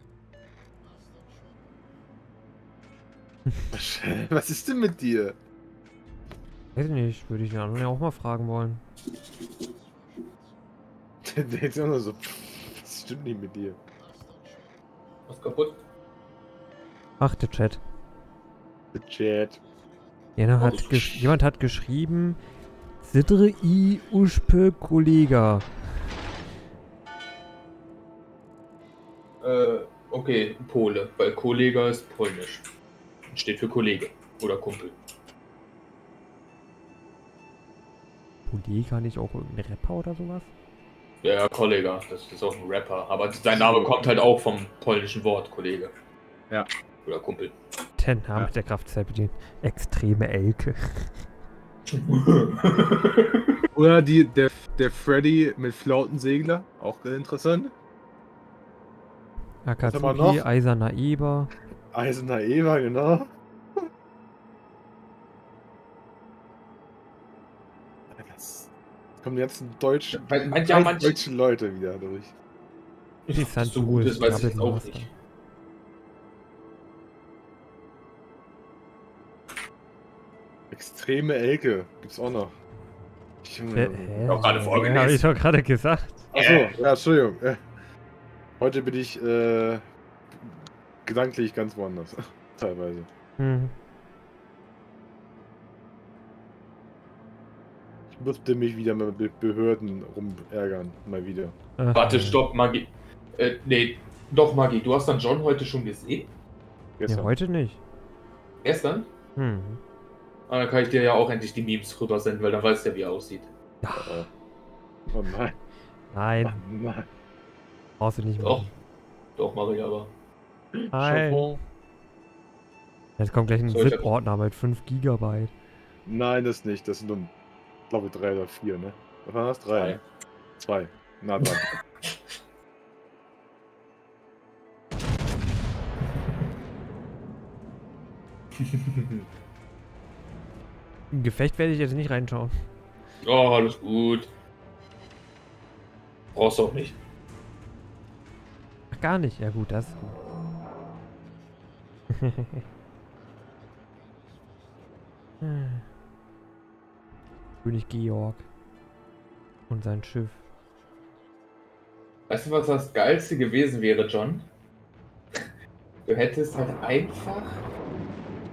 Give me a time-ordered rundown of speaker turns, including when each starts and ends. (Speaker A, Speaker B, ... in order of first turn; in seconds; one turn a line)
Speaker A: 3.7-5.3
Speaker B: 6.7-8.8
Speaker A: 11.2-13.8
Speaker C: 15.3-15.8
Speaker B: 17.2-17.8
Speaker A: 18.9-19.6
Speaker B: 20.4-22.4
Speaker A: 20.6-21.2
Speaker B: 23.0-25.7
Speaker C: 29.4-32.6
Speaker C: 33.3-35.0
Speaker B: 38.5-40.5
Speaker C: 41.2-45.9
Speaker A: 43.5-44.1
Speaker C: 47.0-47.5
Speaker B: 48.0-51.2
Speaker C: 51.9-53.6
Speaker A: 53.7-57.7
Speaker B: 59.6-61.5
Speaker A: 59.8-60.4
Speaker A: 61.9-63.3
Speaker A: 68.1-72.3
Speaker C: 70.1-71.2
Speaker C: 73.3-75.1
Speaker B: 73.3-75.1
Speaker A: 80.7-82.5
Speaker A: 83.4-84.8
Speaker B: 83.7-86.3
Speaker C: 84.2-85.2
Speaker A: 86.3-87.6
Speaker C: 86.3-86.8
Speaker A: 88.6-93.1
Speaker B: 93.4-93.7
Speaker A: 98.1-101.5
Speaker B: 101.8-102.4
Speaker C: 101.9-106.3
Speaker A: 107.0-107.3
Speaker B: 107.1-107.8
Speaker C: 108.6-109.1
Speaker B: 109.3-109.8
Speaker C: 110.5-113.5
Speaker B: 113.8-114.2
Speaker A: 114.0-114.3
Speaker A: 115.1-115.6
Speaker B: 116.1-116.6
Speaker A: 116.4-117.1
Speaker B: 118.0-118.7
Speaker C: 118.4-118.7
Speaker C: 119.3-120.1
Speaker A: 120.7-121.6
Speaker B: 120.9-121.6
Speaker B: 123.2-125.5
Speaker C: 123.7-124.1
Speaker A: 126.0-127.3
Speaker A: 127.9-130.0
Speaker C: 129.7-130.0
Speaker A: 130.6-131.7
Speaker C: 131.4-132.1
Speaker C: 138.6-139.2
Speaker B: 141.1-142.6
Speaker C: 143.2-144.3
Speaker C: 146.3-147.0
Speaker B: 148.9-150.2
Speaker B: 152.1-152.6
Speaker B: 155.4-155.8
Speaker B: 157.6-158.5
Speaker B: 159.7-160.4
Speaker C: 162.3-164.4
Speaker C: 166.1-167.6